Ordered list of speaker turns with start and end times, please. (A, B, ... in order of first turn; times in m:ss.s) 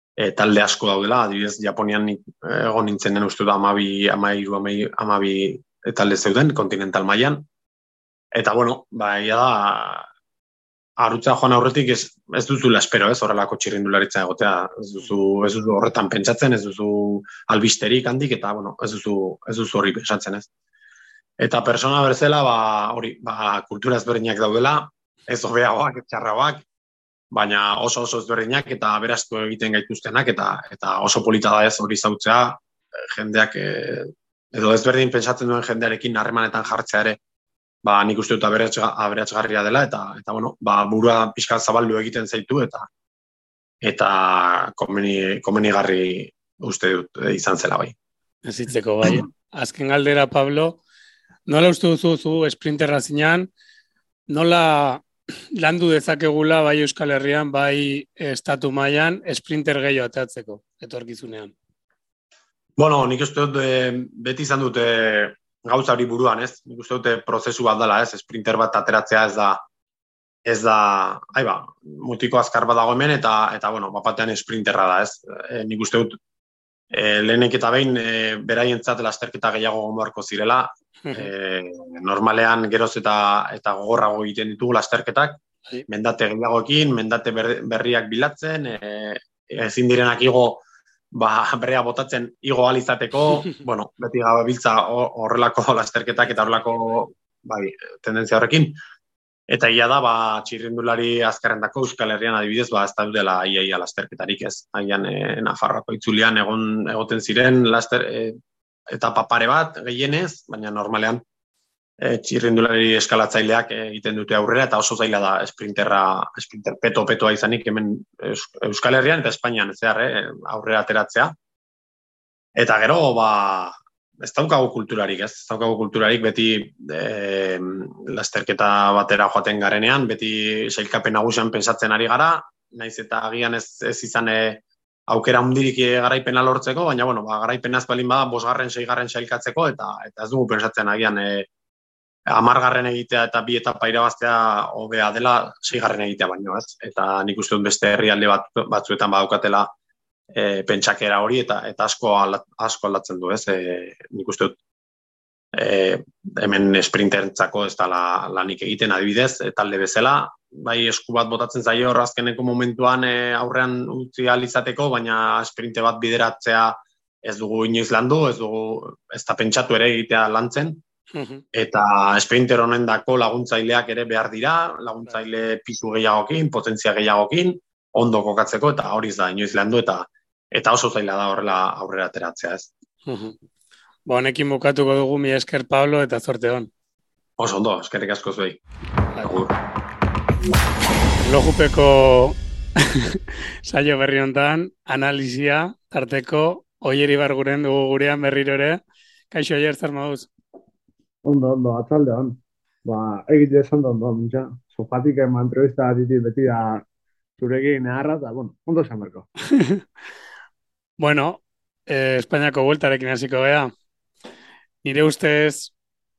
0:00.2-0:07.5 A
0:08.3-0:10.1 A
0:11.0-0:20.5 A
0:21.4-0:26.6 A
0:27.3-0:37.2 A
0:37.8-0:42.9 A
0:43.8-0:48.0 A
0:48.5-0:50.8 B
0:51.5-0:53.5 B
0:54.3-1:01.5 B
1:02.8-1:09.6 A
1:10.4-1:16.2 A
1:16.9-1:38.8 A
1:21.0-1:21.3 B
1:39.5-1:48.4 A
1:48.9-1:51.2 A
1:52.0-2:01.4 A
2:02.6-2:21.5 A
2:22.3-2:29.7 A
2:30.3-2:34.6 A
2:35.5-2:50.8 A
2:51.1-2:51.4 B
2:51.5-3:02.7 A
3:03.1-3:03.4 B
3:04.1-3:06.7 B
3:07.4-3:08.6 A
3:09.1-3:09.4 B
3:09.2-3:09.5 A
3:11.2-3:18.8 B
3:19.3-3:20.3 B
3:21.2-3:26.8 C
3:27.4-3:29.3 C
3:29.5-3:29.8 B
3:31.0-3:33.7 B
3:34.8-3:35.7 B